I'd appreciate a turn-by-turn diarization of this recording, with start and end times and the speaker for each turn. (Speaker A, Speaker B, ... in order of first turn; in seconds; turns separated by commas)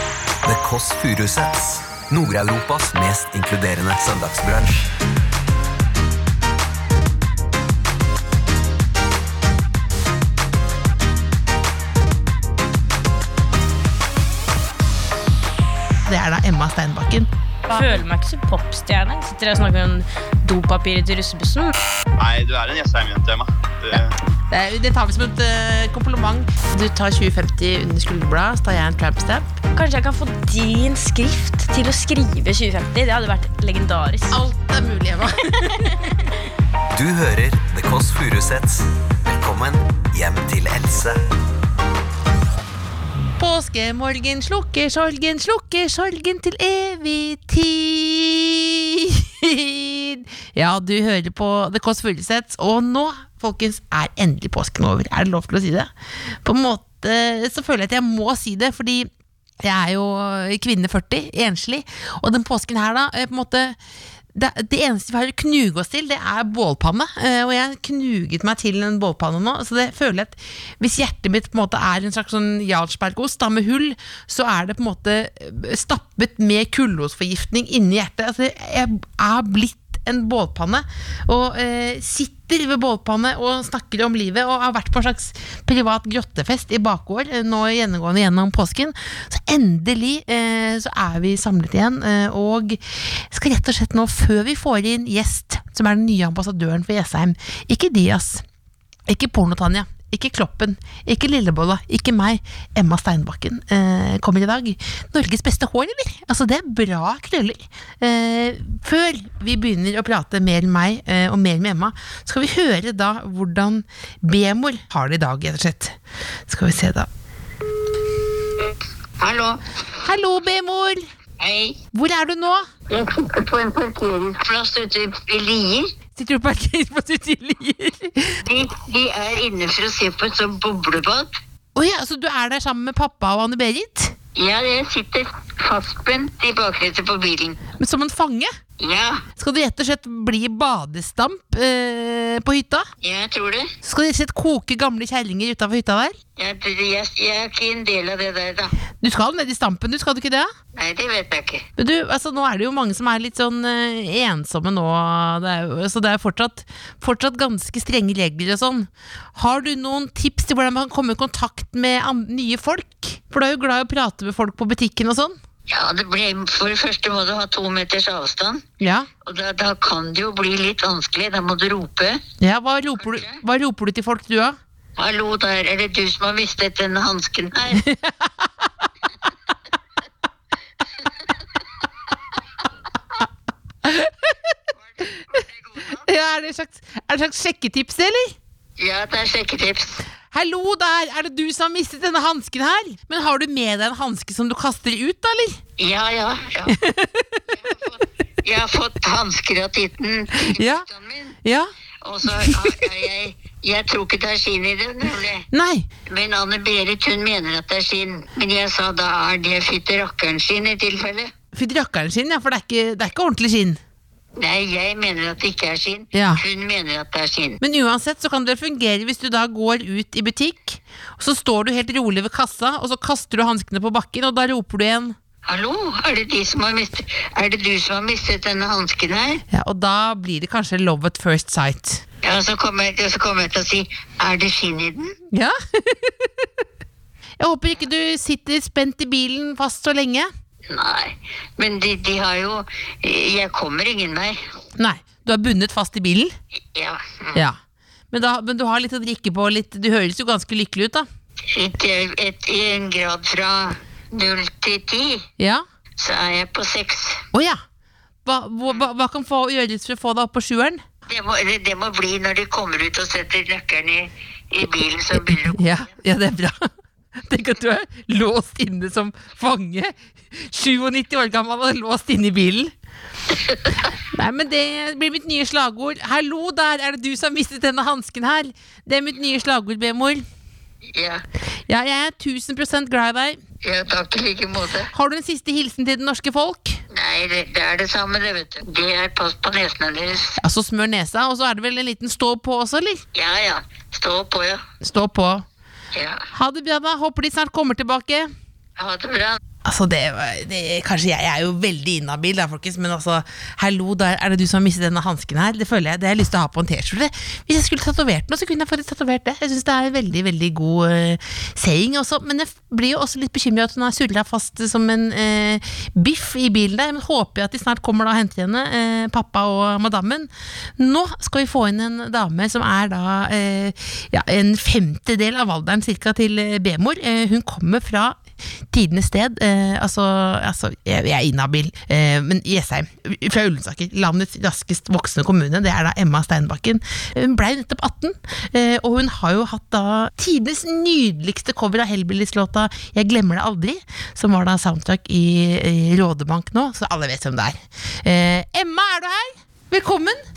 Speaker A: 0.4-4.9, Speaker B: 16.0-18.0, Speaker C: 17.7-21.7, Speaker D: 22.2-24.1, Speaker B: 23.9-29.6, Speaker C: 29.7-34.5, Speaker B: 34.3-36.1, Speaker A: 36.9-41.2, Speaker B: 43.4-55.9, Speaker B: 56.4-59.1, Speaker B: 59.6-63.8, Speaker B: 64.3-98.4, Speaker B: 99.1-117.1, Speaker E: 119.2-119.6, Speaker B: 120.0-121.0, Speaker E: 121.4-121.8, Speaker B: 121.9-122.7, Speaker E: 122.9-125.9, Speaker B: 126.2-128.4, Speaker E: 128.4-131.3, Speaker B: 131.7-134.2, Speaker E: 134.3-137.6, Speaker B: 137.8-138.5, Speaker E: 138.8-139.2, Speaker B: 139.4-142.9, Speaker E: 143.0-143.7, Speaker B: 143.8-146.1, Speaker E: 146.4-148.8, Speaker B: 149.0-150.5, Speaker E: 150.7-151.7, Speaker B: 151.8-165.3, Speaker E: 165.7-168.7, Speaker B: 168.8-169.1, Speaker E: 169.2-172.2, Speaker B: 172.4-174.6, Speaker E: 173.0-173.4, Speaker E: 175.0-177.9, Speaker B: 177.8-178.1, Speaker B: 183.8-184.6, Speaker E: 184.8-186.0, Speaker B: 185.9-188.3, Speaker E: 188.8-190.0, Speaker B: 190.3-195.6, Speaker E: 195.8-196.8, Speaker B: 196.7-197.4, Speaker E: 197.5-201.4, Speaker B: 200.3-200.8, Speaker B: 201.4-201.7, Speaker E: 202.0-205.4, Speaker B: 202.2-202.9, Speaker B: 205.5-205.9, Speaker E: 206.1-211.3, Speaker B: 211.5-213.8, Speaker E: 214.4-217.6, Speaker B: 216.1-216.4, Speaker B: 217.6-225.2, Speaker E: 225.4-229.4, Speaker B: 229.5-232.0, Speaker E: 232.2-235.1, Speaker B: 235.3-236.5, Speaker B: 237.4-240.3, Speaker E: 240.7-244.4, Speaker B: 244.8-246.3, Speaker E: 246.7-247.4, Speaker B: 247.3-247.6, Speaker B: 248.1-251.1, Speaker E: 251.5-255.2, Speaker B: 255.4-255.6, Speaker E: 256.0-257.2, Speaker B: 257.3-257.6, Speaker B: 258.2-260.8, Speaker E: 261.1-265.9, Speaker B: 265.2-272.7, Speaker E: 273.3-273.9, Speaker B: 274.0-280.2, Speaker E: 280.9-281.2, Speaker B: 281.7-283.4, Speaker E: 283.6-284.9, Speaker B: 284.9-286.8, Speaker E: 286.9-290.4, Speaker B: 290.4-293.0, Speaker E: 293.1-294.6, Speaker B: 294.8-295.4, Speaker E: 295.9-296.2, Speaker B: 296.3-298.3, Speaker E: 298.8-299.4, Speaker B: 299.6-350.2